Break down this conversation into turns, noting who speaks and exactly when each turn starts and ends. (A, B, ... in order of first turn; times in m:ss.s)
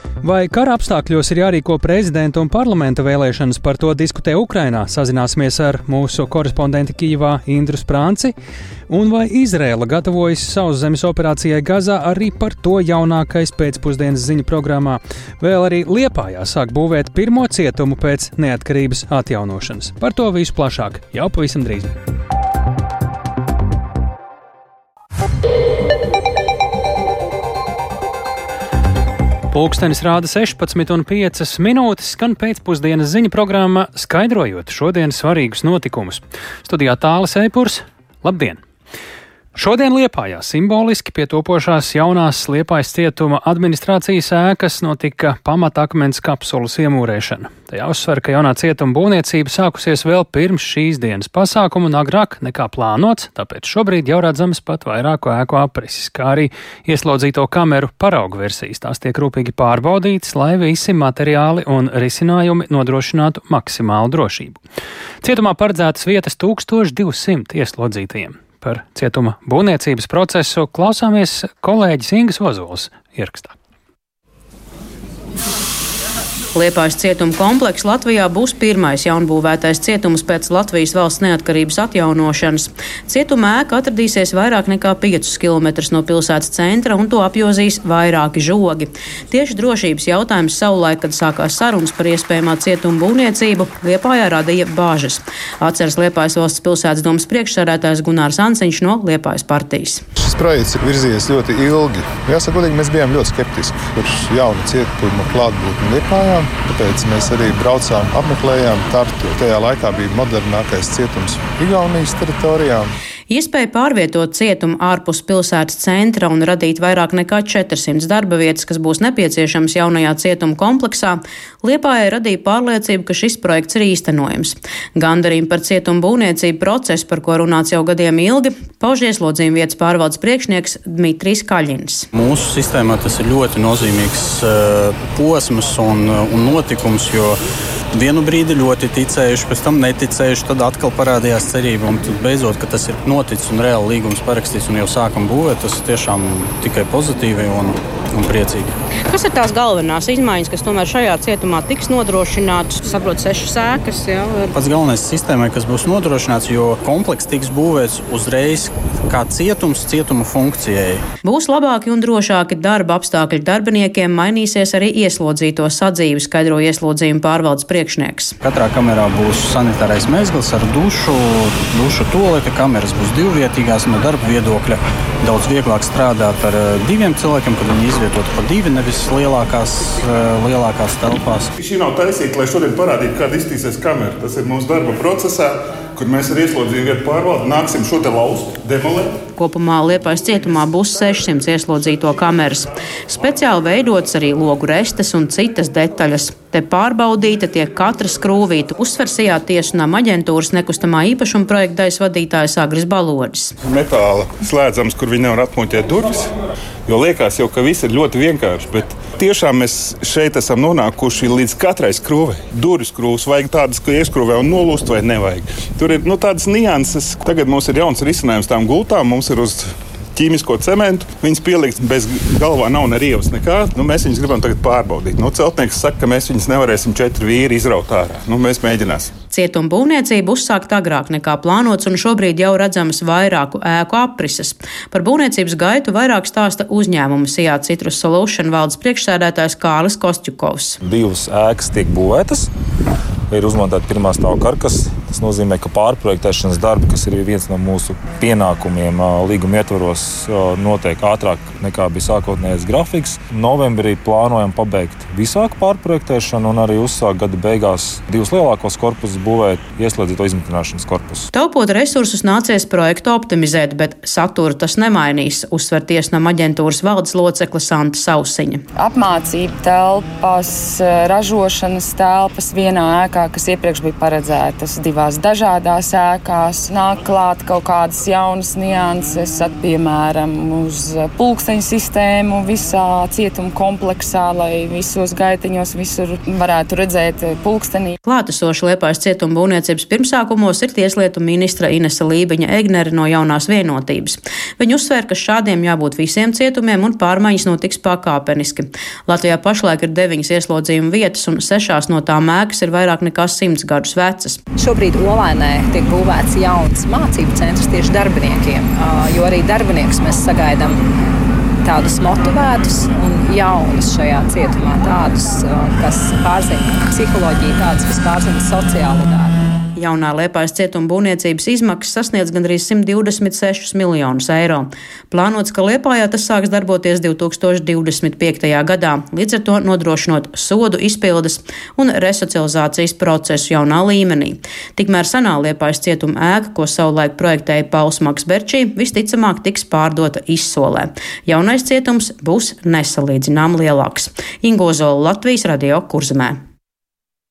0:00.2-0:08.3 A
0:08.9-0:22.0 A
0:29.5-0:38.6 A
0:39.6-1:04.6 A
1:05.2-1:13.5 A
1:16.6-1:40.0 B
1:40.2-1:52.9 C
1:53.3-2:12.1 B
2:12.1-2:17.4 D
2:17.9-2:28.8 D
2:29.0-2:34.5 B
2:34.5-2:41.0 D
2:41.2-2:48.3 B
2:48.4-3:01.5 D
3:01.6-3:09.2 E
3:09.4-3:23.5 B
3:23.6-3:26.3 E
3:26.9-3:49.1 E
3:49.3-4:00.8 B
4:00.8-4:02.5 F
4:03.3-4:21.3 F
4:21.3-4:28.6 B
4:28.8-4:47.9 G
4:48.0-5:04.4 B
5:04.6-5:10.8 H
5:11.6-5:19.4 H
5:19.8-5:46.4 B